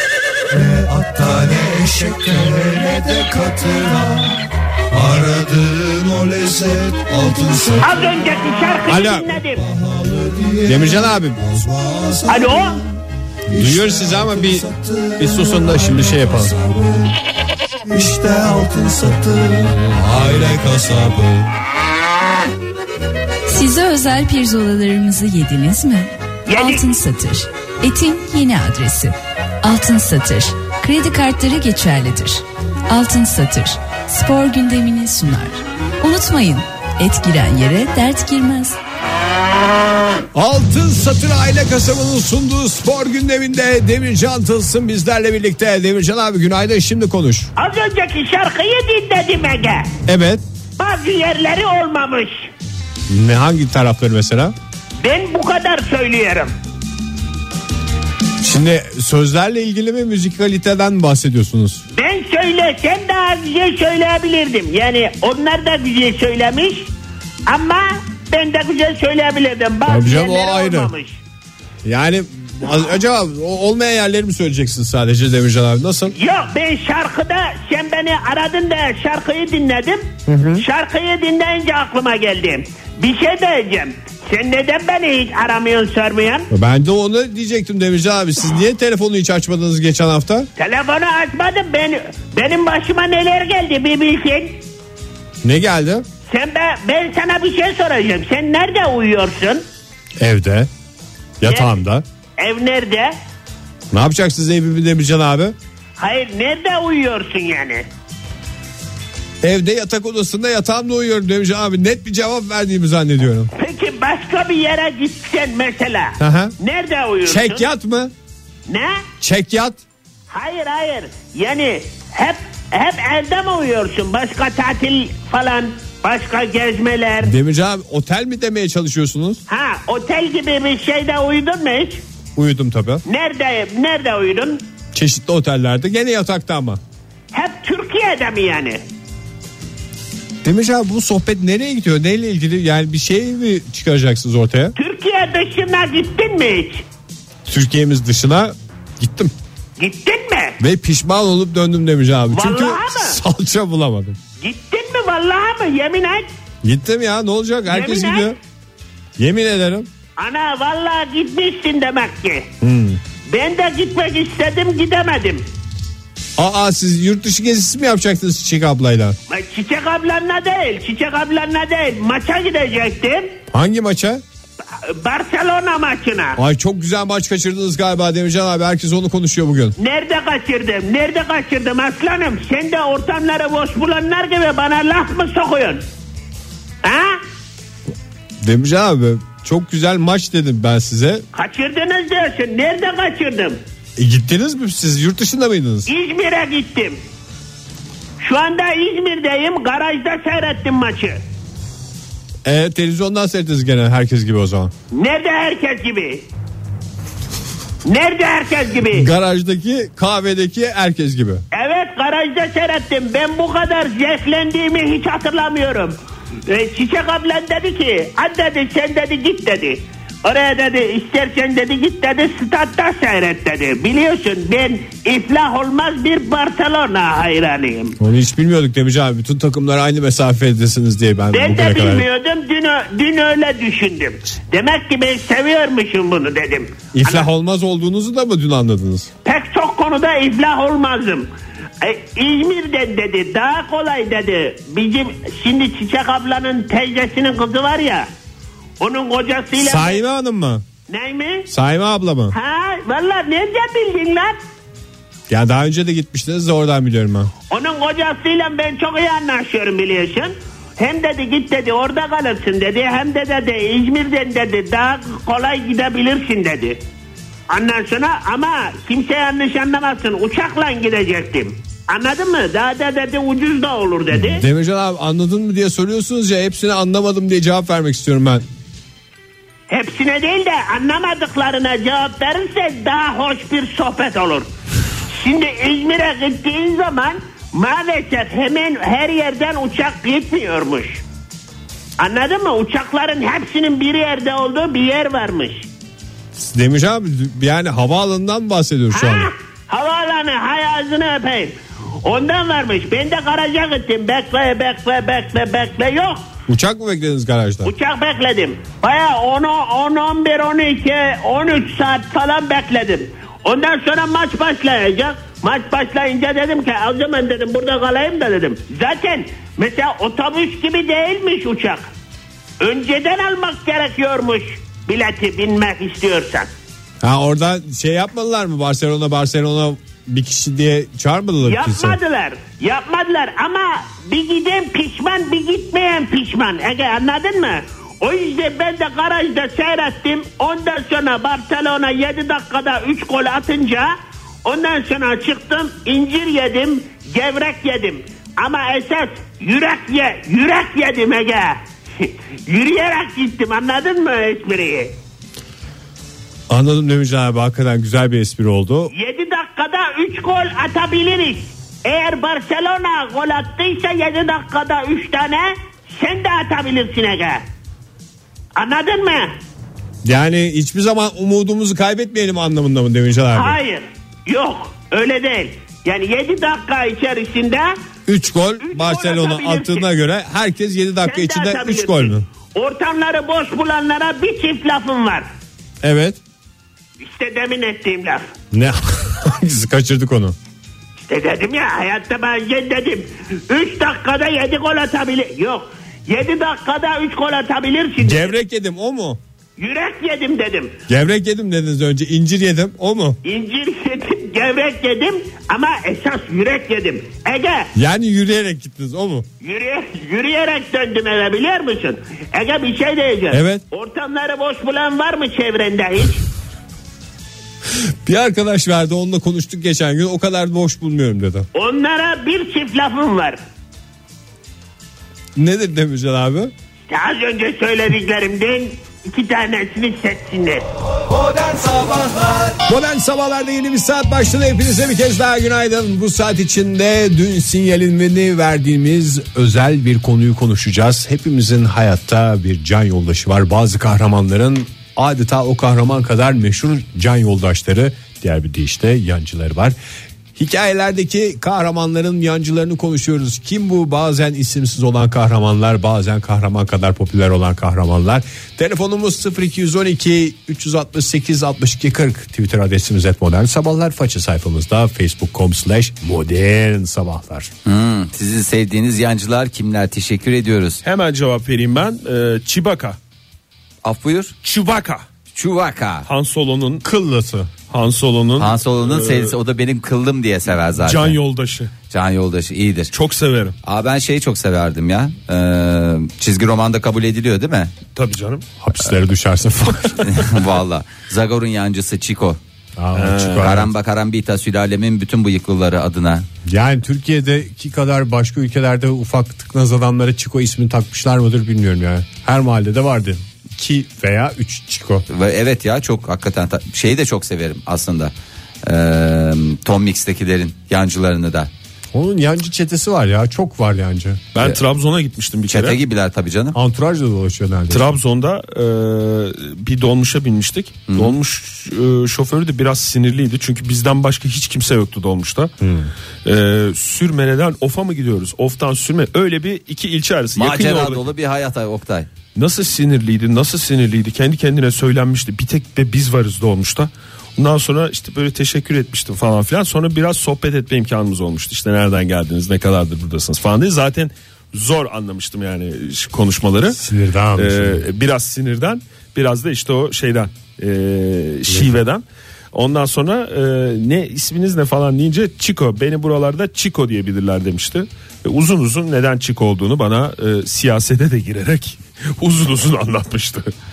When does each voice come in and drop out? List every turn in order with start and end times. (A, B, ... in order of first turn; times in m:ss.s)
0:00.5-0:08.3 A
0:07.8-0:09.7 B
0:08.9-0:09.3 C
0:09.5-0:12.9 A
0:10.7-0:11.4 C
0:12.3-0:12.8 B
0:13.5-0:17.1 A
0:13.6-0:14.7 C
0:15.2-0:16.5 C
0:17.9-0:21.5 A
0:23.5-0:38.8 D
0:26.5-0:26.8 B
0:40.3-0:47.5 C
0:47.6-0:49.9 B
0:50.1-0:50.4 C
0:50.8-0:52.5 B
0:53.1-0:54.6 C
0:55.0-0:56.5 B
0:58.4-1:01.8 C
1:01.9-1:06.9 B
1:07.5-1:11.2 B
1:09.9-1:10.9 C
1:11.8-1:16.1 C
1:16.2-1:26.5 B
1:20.3-1:20.6 C
1:26.5-1:30.5 C
1:30.6-1:34.6 B
1:35.4-1:36.0 C
1:36.3-1:39.6 B
1:40.2-1:40.7 C
1:41.4-1:42.0 C
1:41.4-1:41.8 B
1:42.4-1:43.1 B
1:43.9-1:45.6 C
1:46.0-1:47.9 B
1:49.4-1:53.5 C
1:53.6-1:57.7 B
1:56.2-1:56.5 C
1:57.2-1:58.1 C
1:58.7-1:59.0 B
1:59.2-1:59.8 C
2:00.3-2:07.3 B
2:07.2-2:09.4 C
2:09.5-2:12.0 B
2:12.4-2:13.0 C
2:13.1-2:14.6 B
2:14.9-2:16.8 C
2:17.3-2:18.8 B
2:20.4-2:24.8 C
2:24.8-2:26.8 B
2:27.5-2:29.3 C
2:29.8-2:30.6 B
2:30.6-2:34.2 C
2:32.3-2:33.2 B
2:34.4-2:36.3 B
2:36.6-2:38.4 C
2:37.7-2:38.3 B
2:39.2-2:39.9 C
2:40.2-2:42.5 B
2:42.6-2:43.0 C
2:43.3-2:45.4 B
2:46.4-2:49.2 C
2:49.3-2:53.3 B
2:53.5-2:54.2 C
2:54.8-2:56.4 B
2:56.4-2:59.8 C
2:59.8-3:05.8 B
3:06.8-3:07.2 B
3:08.4-3:11.2 C
3:11.3-3:13.6 B
3:14.0-3:15.9 C
3:15.9-3:17.0 B
3:18.2-3:21.2 B
3:22.4-3:24.7 C
3:24.9-3:26.2 B
3:27.8-3:29.1 B
3:28.9-3:31.4 C
3:31.5-3:36.0 B
3:36.5-3:48.0 B
3:48.0-3:52.1 C
3:51.3-3:57.3 B
3:56.9-3:59.1 C
3:59.2-4:01.3 B
4:01.8-4:08.1 B
4:08.8-4:10.0 B
4:09.6-4:10.6 C
4:10.9-4:11.5 B
4:11.5-4:12.4 C
4:12.3-4:14.4 B
4:15.3-4:17.3 C
4:17.5-4:26.8 B
4:27.5-4:34.4 B
4:34.1-4:38.4 C
4:39.7-4:44.5 B
4:45.1-4:51.0 B
4:52.0-4:55.7 B
4:56.4-4:59.3 C
4:58.9-5:06.2 B
5:06.5-5:07.7 C
5:07.6-5:21.8 B
5:22.6-5:26.5 B
5:27.0-5:32.0 C
5:31.4-5:55.0 B
5:56.5-5:58.9 C
5:58.9-6:07.4 B
6:08.6-6:09.3 B
6:10.0-6:13.6 C
6:13.3-6:17.7 B
6:18.1-6:22.2 C
6:18.6-6:19.9 B
6:21.0-6:25.3 B
6:25.8-6:26.2 C
6:27.0-6:28.3 B
6:28.5-6:30.4 C
6:31.1-6:38.3 B
6:38.0-6:39.2 C
6:39.6-6:40.8 B
6:40.9-6:43.2 C
6:43.2-6:47.7 B
6:47.8-6:49.2 C
6:49.4-6:56.2 B
6:53.3-6:53.6 C
6:57.8-7:01.5 C
7:01.6-7:03.4 B
7:05.4-7:06.5 C
7:06.9-7:10.7 B
7:11.1-7:12.6 A
7:12.6-7:29.8 C
7:30.4-7:47.5 C
7:47.6-7:50.8 E
7:50.8-7:53.0 F
7:53.8-7:54.4 E
7:54.4-7:55.0 F
7:55.3-7:56.1 E
7:56.0-7:56.8 F
7:56.8-7:57.5 C
7:57.7-7:59.4 F
7:58.4-8:01.2 E
8:00.8-8:01.7 F
8:01.9-8:02.9 E
8:02.9-8:03.6 F
8:03.6-8:07.7 E
8:08.0-8:08.4 F
8:08.6-8:10.2 C
8:09.8-8:10.1 F
8:10.0-8:12.4 E
8:12.8-8:13.7 C
8:13.0-8:13.6 F
8:13.4-8:16.3 E
8:16.4-8:25.0 C
8:25.1-8:28.1 E
8:28.6-8:31.5 E
8:31.9-8:34.2 C
8:34.4-8:35.8 F
8:35.5-8:36.6 E
8:36.5-8:37.9 C
8:37.7-8:45.5 F
8:40.9-8:41.2 E
8:45.6-8:45.9 C
8:46.2-8:51.1 F
8:50.4-8:52.1 E
8:52.4-9:06.8 F
9:06.7-9:07.8 C
9:07.4-9:23.5 F
9:11.5-9:11.7 C